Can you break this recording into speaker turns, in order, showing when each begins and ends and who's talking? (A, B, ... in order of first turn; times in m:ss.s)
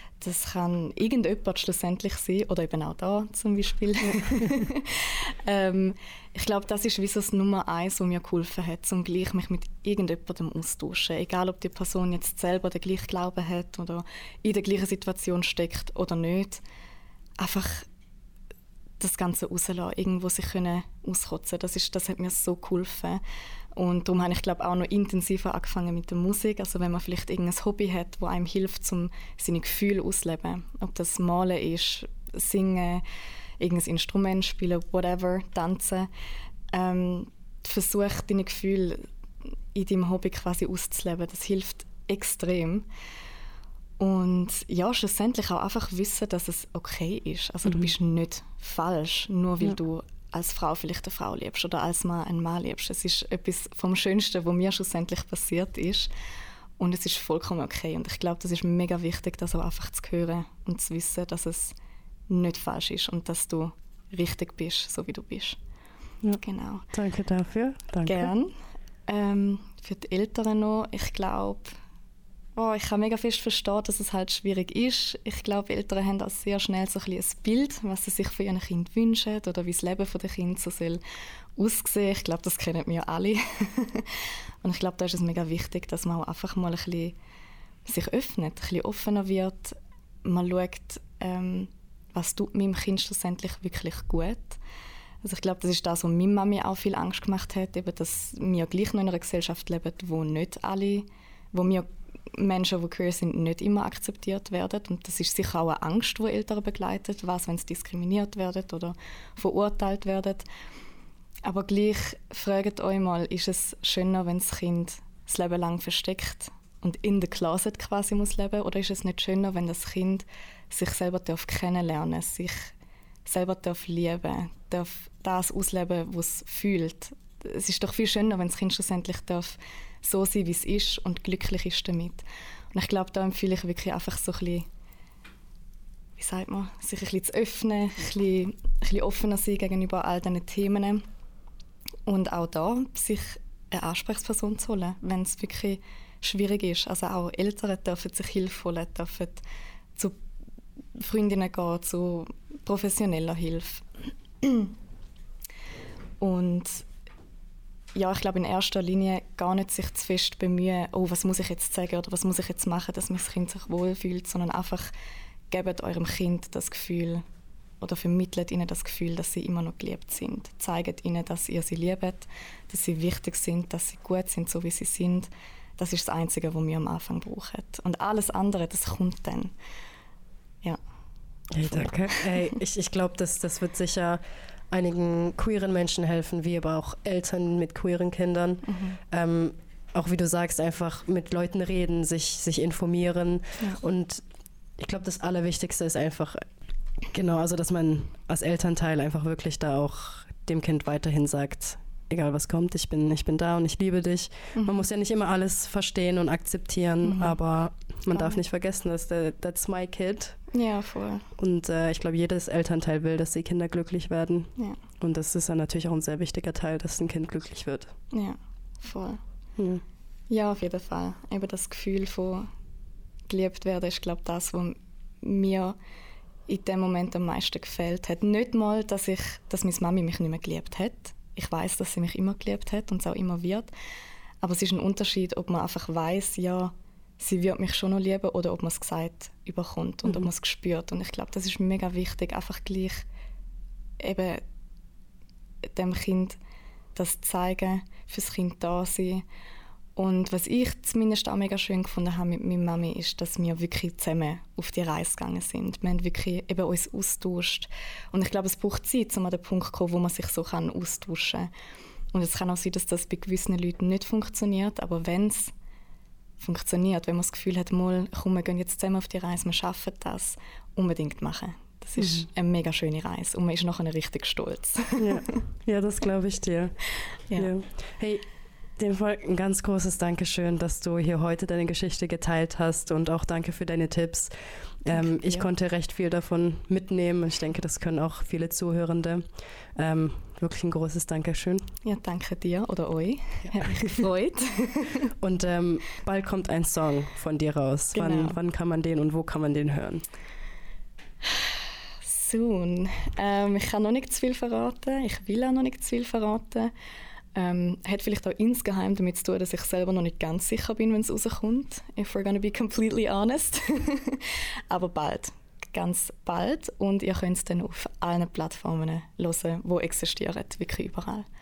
0:00.2-0:16.6 A
0:17.4-0:17.9 A
0:19.0-0:23.2 A
0:23.8-0:33.0 A
0:33.6-0:36.1 A
0:36.7-0:39.1 A
0:39.7-0:42.9 A
0:44.0-0:56.1 A
0:47.7-0:47.9 B
0:56.8-1:01.7 A
1:02.3-1:05.6 A
1:06.2-1:08.3 B
1:06.4-1:06.9 A
1:08.1-1:08.5 A
1:09.1-1:11.8 A
1:12.6-1:21.0 A
1:21.6-1:27.2 A
1:27.9-1:34.6 A
1:35.2-1:50.5 A
1:51.4-2:02.7 A
2:03.3-2:14.7 A
2:16.2-2:21.0 A
2:22.1-2:29.4 A
2:31.0-2:33.9 A
2:34.4-2:34.7 A
2:36.2-2:36.8 A
2:38.0-2:44.9 A
2:45.5-2:47.2 A
2:47.8-2:59.5 A
3:01.5-3:14.2 B
3:01.7-3:02.5 A
3:08.7-3:09.0 A
3:14.8-3:16.4 B
3:17.1-3:30.4 B
3:24.6-3:24.8 A
3:27.0-3:27.4 A
3:28.1-3:28.4 A
3:30.5-3:31.3 A
3:31.4-3:34.5 B
3:35.0-3:37.9 B
3:38.1-3:39.2 A
3:39.6-3:39.8 B
3:40.3-3:42.5 A
3:43.3-3:45.8 A
3:46.5-3:53.7 A
3:54.4-4:03.1 A
4:04.0-4:04.4 A
4:05.7-4:06.4 A
4:07.0-4:09.2 A
4:10.0-4:21.5 A
4:22.1-4:25.5 A
4:26.4-4:35.2 A
4:32.0-4:32.3 B
4:35.0-4:36.8 B
4:37.3-4:37.5 A
4:37.4-4:38.2 B
4:38.8-4:44.3 B
4:44.8-4:49.2 B
4:44.9-4:45.5 A
4:49.8-4:51.7 B
4:51.8-4:55.1 A
4:53.5-4:54.0 B
4:55.2-5:00.0 B
4:57.9-4:58.4 A
5:02.0-5:06.7 A
5:07.4-5:21.3 A